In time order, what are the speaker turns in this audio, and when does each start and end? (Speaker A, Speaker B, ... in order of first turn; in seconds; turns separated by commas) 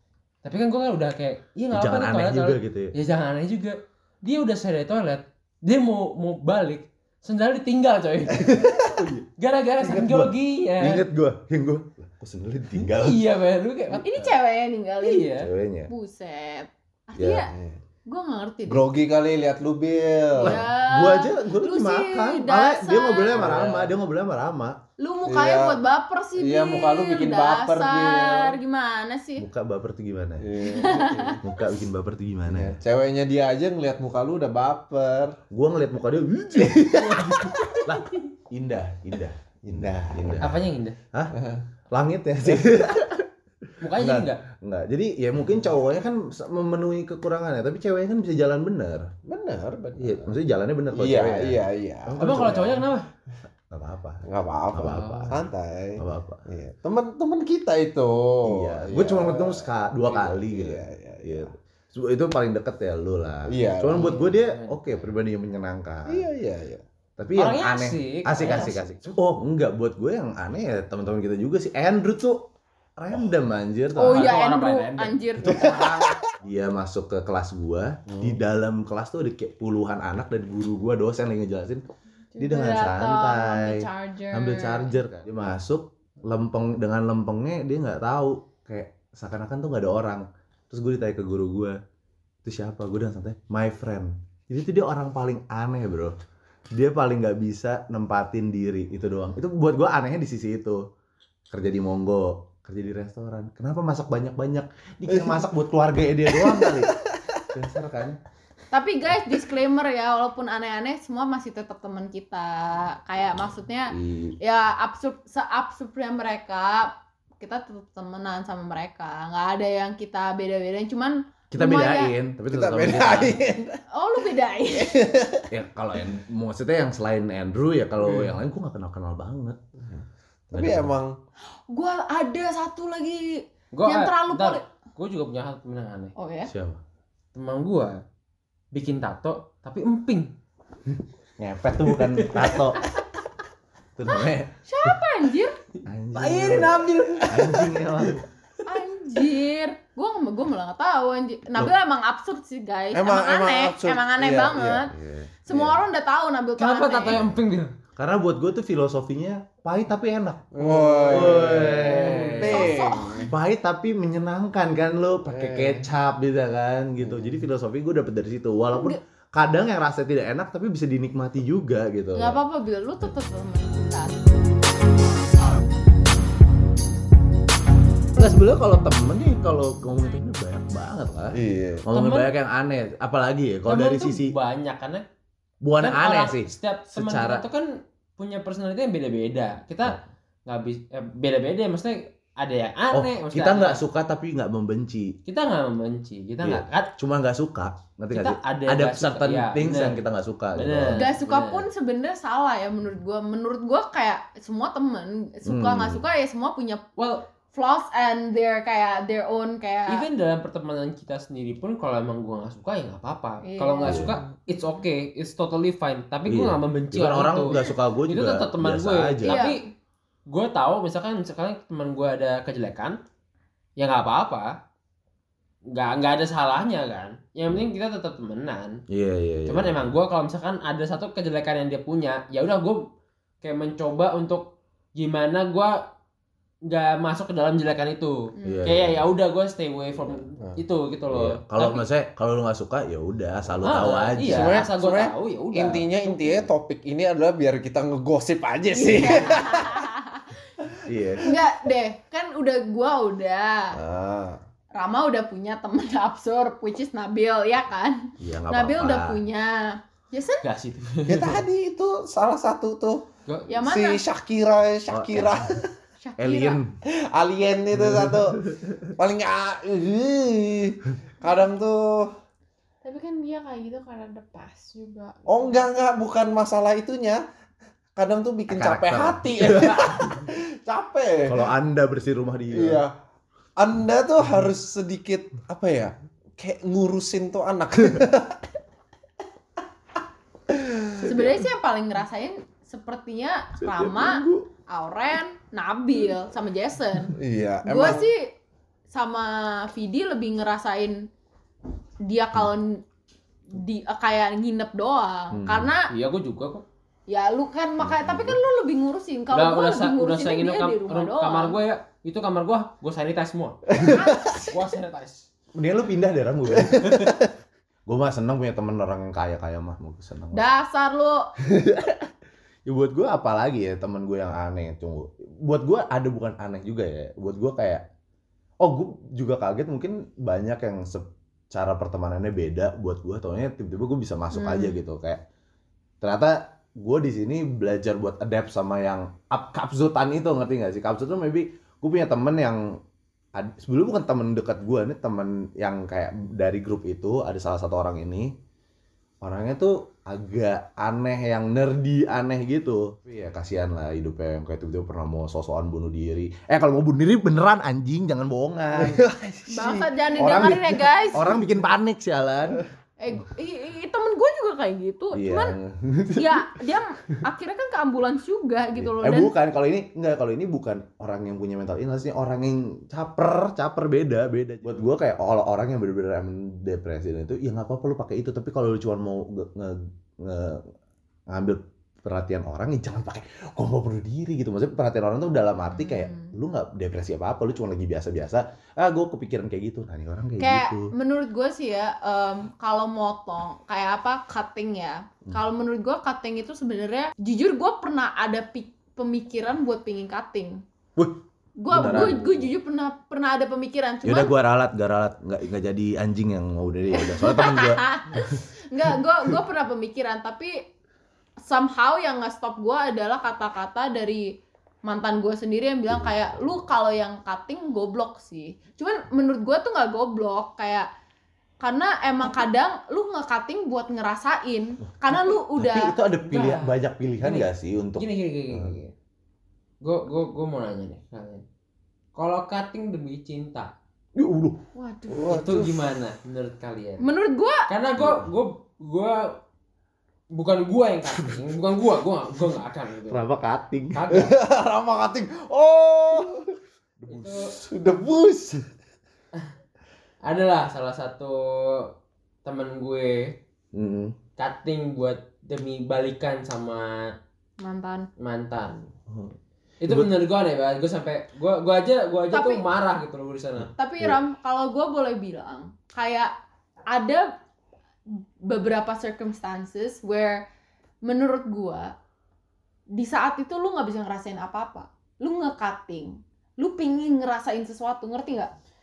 Speaker A: 0.4-11.0, Speaker B: 1.7-2.9, Speaker B: 8.3-9.2, Speaker B: 9.8-13.2, Speaker A: 12.9-14.1, Speaker B: 13.9-14.3, Speaker C: 14.0-15.3, Speaker A: 15.0-15.5, Speaker B: 15.3-15.9, Speaker C: 15.9-17.5, Speaker B: 17.2-17.5, Speaker D: 17.5-17.8, Speaker C: 18.1-18.9, Speaker D: 18.7-20.6, Speaker C: 20.4-23.5, Speaker B: 20.4-24.8, Speaker D: 23.4-23.9, Speaker C: 25.0-29.5, Speaker D: 25.2-25.8, Speaker D: 26.4-28.6, Speaker B: 29.4-30.5, Speaker D: 30.4-31.4, Speaker C: 30.7-31.4, Speaker B: 31.4-32.8, Speaker D: 32.5-35.4, Speaker B: 35.5-40.6, Speaker D: 37.0-37.8, Speaker A: 37.2-37.7, Speaker D: 39.6-40.5, Speaker A: 40.4-41.0, Speaker D: 41.3-41.6, Speaker B: 41.9-49.1, Speaker A: 43.8-44.4, Speaker D: 49.2-50.3, Speaker B: 50.0-52.9, Speaker D: 50.9-52.4, Speaker A: 52.2-53.1, Speaker B: 53.7-56.4, Speaker D: 54.2-61.5, Speaker A: 54.8-55.3, Speaker B: 58.5-66.3, Speaker D: 63.5-64.2, Speaker A: 63.9-65.1, Speaker D: 66.1-66.8, Speaker B: 67.2-74.3, Speaker A: 67.3-68.9, Speaker C: 74.0-76.0, Speaker A: 74.0-75.8, Speaker B: 75.4-81.8, Speaker D: 75.5-76.1, Speaker E: 82.3-85.0, Speaker B: 82.4-91.8, Speaker B: 92.4-96.1, Speaker B: 96.7-100.8, Speaker B: 101.5-107.0, Speaker D: 105.1-105.4, Speaker D: 106.4-107.0, Speaker B: 107.5-108.2, Speaker C: 108.7-122.1, Speaker B: 113.9-114.4, Speaker B: 121.5-123.5, Speaker D: 122.5-123.8, Speaker C: 123.9-125.0, Speaker D: 124.8-125.5, Speaker B: 125.5-129.6, Speaker D: 129.8-131.2, Speaker B: 130.5-130.9, Speaker C: 131.7-134.6, Speaker A: 133.7-136.1, Speaker C: 136.2-136.5, Speaker B: 136.5-136.8, Speaker A: 137.3-138.0, Speaker A: 138.7-140.3, Speaker B: 141.4-142.8, Speaker A: 141.9-143.0, Speaker B: 144.0-144.9, Speaker C: 144.7-145.5, Speaker B: 145.9-148.2, Speaker A: 146.1-148.2, Speaker C: 148.6-154.9, Speaker D: 152.9-154.9, Speaker B: 154.9-155.8, Speaker C: 155.5-157.2, Speaker A: 156.6-157.7, Speaker B: 158.0-172.4, Speaker D: 160.5-163.3, Speaker A: 160.7-162.6, Speaker C: 162.5-163.3, Speaker D: 165.3-165.9, Speaker D: 167.0-167.3, Speaker C: 168.7-169.0, Speaker C: 172.1-174.2, Speaker B: 178.2-184.3, Speaker D: 181.3-181.8, Speaker A: 181.9-182.3, Speaker A: 183.7-185.0, Speaker B: 185.6-187.4, Speaker A: 185.8-193.8, Speaker B: 192.9-195.2, Speaker A: 195.2-196.9, Speaker B: 196.4-201.0, Speaker A: 198.1-200.0, Speaker A: 200.5-201.7, Speaker C: 200.9-206.8, Speaker B: 205.5-206.0, Speaker A: 207.0-207.2, Speaker C: 207.5-210.0, Speaker A: 209.9-219.6, Speaker C: 213.4-214.1, Speaker B: 213.8-214.2, Speaker B: 216.3-219.4, Speaker C: 219.2-219.7, Speaker A: 220.3-223.0, Speaker A: 223.8-224.5, Speaker A: 225.7-228.8, Speaker B: 228.9-229.9, Speaker A: 229.5-232.9, Speaker A: 233.4-235.8, Speaker A: 236.7-241.8, Speaker C: 238.4-238.7, Speaker B: 238.4-239.1, Speaker B: 241.1-244.7, Speaker A: 243.6-246.4, Speaker D: 244.2-249.8, Speaker C: 248.7-250.4, Speaker B: 250.9-251.4, Speaker C: 251.2-253.8, Speaker D: 253.8-254.4, Speaker C: 254.7-260.4, Speaker B: 258.2-259.2, Speaker A: 260.4-261.4, Speaker D: 261.1-263.0, Speaker C: 263.5-264.0, Speaker D: 263.6-265.7, Speaker B: 264.9-265.6, Speaker C: 266.0-266.6, Speaker B: 266.2-266.7, Speaker D: 267.1-272.1, Speaker B: 267.8-268.7, Speaker E: 272.8-275.6, Speaker D: 275.3-277.2, Speaker D: 278.0-281.4, Speaker B: 278.5-280.3, Speaker B: 281.3-282.8, Speaker D: 282.5-282.9, Speaker D: 283.6-288.4, Speaker D: 290.5-291.4, Speaker C: 291.0-298.3, Speaker B: 293.6-294.5, Speaker D: 297.2-298.1, Speaker C: 298.9-301.1, Speaker C: 302.0-302.8, Speaker C: 303.5-305.9, Speaker B: 305.3-305.7, Speaker A: 305.9-306.6, Speaker C: 307.1-311.6, Speaker B: 307.8-308.4, Speaker A: 309.3-315.3, Speaker C: 313.9-314.5, Speaker B: 315.5-317.3, Speaker B: 317.9-320.4, Speaker C: 320.3-321.3, Speaker B: 321.4-322.1, Speaker B: 322.7-327.9, Speaker B: 328.6-335.2, Speaker C: 334.3-334.8, Speaker B: 336.0-342.8, Speaker B: 343.4-348.4, Speaker B: 349.2-359.1, Speaker D: 358.7-359.9, Speaker C: 359.5-361.3, Speaker B: 360.1-362.6, Speaker C: 363.0-365.5, Speaker B: 365.1-366.5, Speaker C: 366.1-369.3, Speaker B: 368.8-380.6, Speaker B: 381.3-390.9, Speaker C: 385.7-386.3, Speaker C: 390.4-400.6, Speaker B: 401.0-402.5, Speaker C: 401.6-404.3, Speaker B: 404.0-408.4, Speaker C: 406.9-410.6, Speaker C: 411.4-420.9, Speaker B: 415.9-416.4, Speaker C: 421.6-425.9, Speaker B: 424.8-428.8, Speaker A: 426.2-428.9, Speaker A: 429.8-431.4, Speaker A: 432.1-433.7, Speaker B: 434.1-434.6, Speaker C: 434.8-435.2, Speaker D: 435.1-435.8, Speaker A: 435.2-437.0, Speaker C: 437.0-437.7, Speaker A: 437.7-439.4, Speaker B: 438.0-438.3, Speaker A: 440.3-443.2, Speaker B: 443.1-444.1, Speaker A: 443.9-444.4, Speaker D: 444.1-446.5, Speaker A: 447.1-447.5, Speaker D: 447.1-448.7, Speaker A: 450.2-451.9, Speaker A: 452.4-453.4, Speaker B: 453.7-454.1, Speaker A: 454.4-456.9, Speaker C: 457.6-458.1, Speaker A: 458.2-458.8, Speaker B: 459.1-459.3, Speaker A: 459.8-463.7, Speaker B: 459.9-460.1, Speaker C: 462.3-462.6, Speaker B: 463.6-464.2, Speaker C: 463.8-466.3, Speaker C: 466.9-467.3, Speaker C: 468.5-470.4, Speaker C: 471.0-471.9, Speaker C: 472.9-478.5